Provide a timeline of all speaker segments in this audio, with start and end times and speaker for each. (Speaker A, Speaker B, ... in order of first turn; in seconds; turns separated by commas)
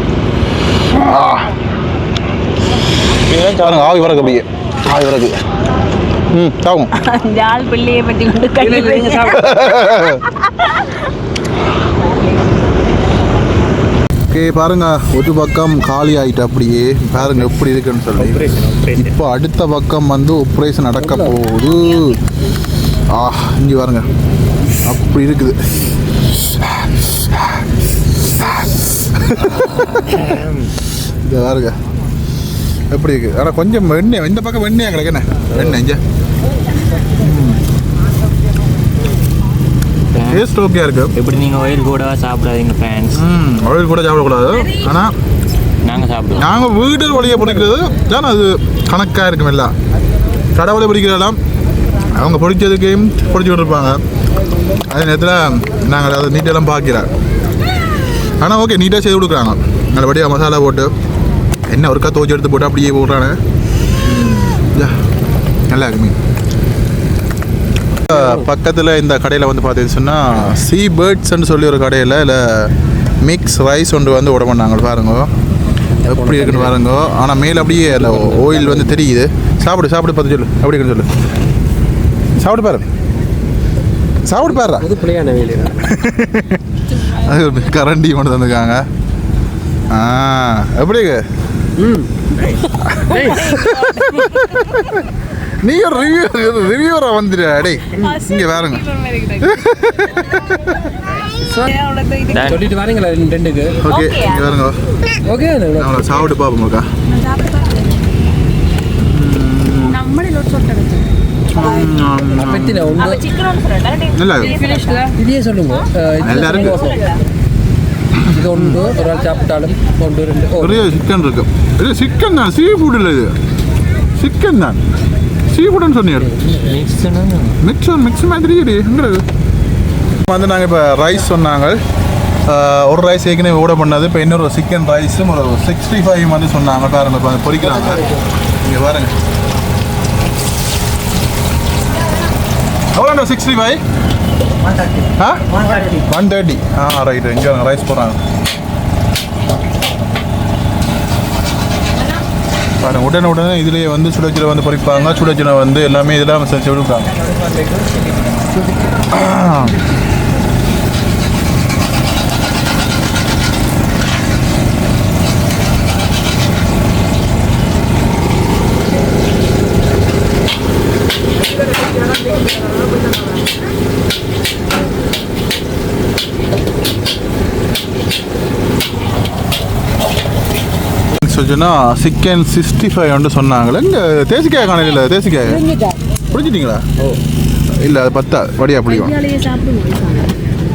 Speaker A: 0.9-1.5, Speaker B: 3.3-4.1, Speaker A: 3.4-5.4, Speaker A: 6.3-6.9, Speaker C: 7.0-9.6, Speaker D: 8.6-9.6, Speaker A: 9.4-10.2, Speaker A: 14.3-22.2, Speaker D: 18.2-19.1, Speaker D: 21.0-21.4, Speaker A: 23.1-24.1, Speaker A: 24.9-25.6, Speaker A: 26.5-27.6, Speaker A: 28.3-30.5, Speaker B: 29.8-30.6, Speaker A: 31.2-31.8, Speaker A: 32.9-36.0, Speaker A: 37.2-37.6, Speaker B: 40.1-40.5, Speaker A: 40.3-41.1, Speaker B: 41.1-43.2, Speaker A: 43.1-45.1, Speaker B: 45.8-46.5, Speaker A: 46.4-49.7, Speaker A: 50.6-51.4, Speaker A: 52.1-54.0, Speaker A: 54.9-57.1, Speaker A: 58.4-60.9, Speaker A: 61.7-63.4, Speaker A: 64.1-65.0, Speaker A: 65.7-66.2, Speaker A: 68.1-75.3, Speaker D: 68.1-68.4, Speaker D: 75.9-76.8, Speaker A: 76.0-81.1, Speaker D: 77.6-79.0, Speaker A: 82.4-82.9, Speaker A: 84.3-84.9, Speaker D: 84.5-86.0, Speaker A: 85.8-88.9, Speaker A: 89.9-91.2, Speaker D: 91.8-93.5, Speaker A: 92.8-95.0, Speaker A: 95.6-98.8, Speaker C: 98.0-99.5, Speaker A: 99.4-100.3, Speaker D: 101.4-101.8, Speaker C: 101.7-102.3, Speaker B: 102.3-102.7, Speaker D: 102.3-103.8, Speaker A: 103.8-104.8, Speaker C: 103.9-104.5, Speaker D: 105.2-106.1, Speaker A: 105.8-106.9, Speaker C: 107.1-108.0, Speaker A: 109.0-110.0, Speaker C: 109.9-111.1, Speaker A: 111.5-113.1, Speaker D: 112.4-113.3, Speaker C: 112.9-115.1, Speaker A: 114.2-114.5, Speaker D: 114.5-117.1, Speaker A: 116.2-116.8, Speaker C: 116.7-117.2, Speaker A: 118.2-118.8, Speaker D: 118.3-120.9, Speaker A: 120.6-123.3, Speaker A: 124.2-124.8, Speaker A: 125.5-126.3, Speaker D: 126.2-126.8, Speaker B: 126.6-127.6, Speaker A: 127.6-129.2, Speaker A: 130.2-131.8, Speaker A: 132.5-138.0, Speaker A: 138.6-139.1, Speaker A: 142.9-143.8, Speaker A: 145.2-148.2, Speaker A: 152.8-157.1, Speaker A: 159.1-159.8, Speaker A: 181.2-185.6, Speaker D: 185.6-185.9, Speaker A: 186.3-186.8, Speaker A: 187.8-189.2, Speaker C: 188.9-190.4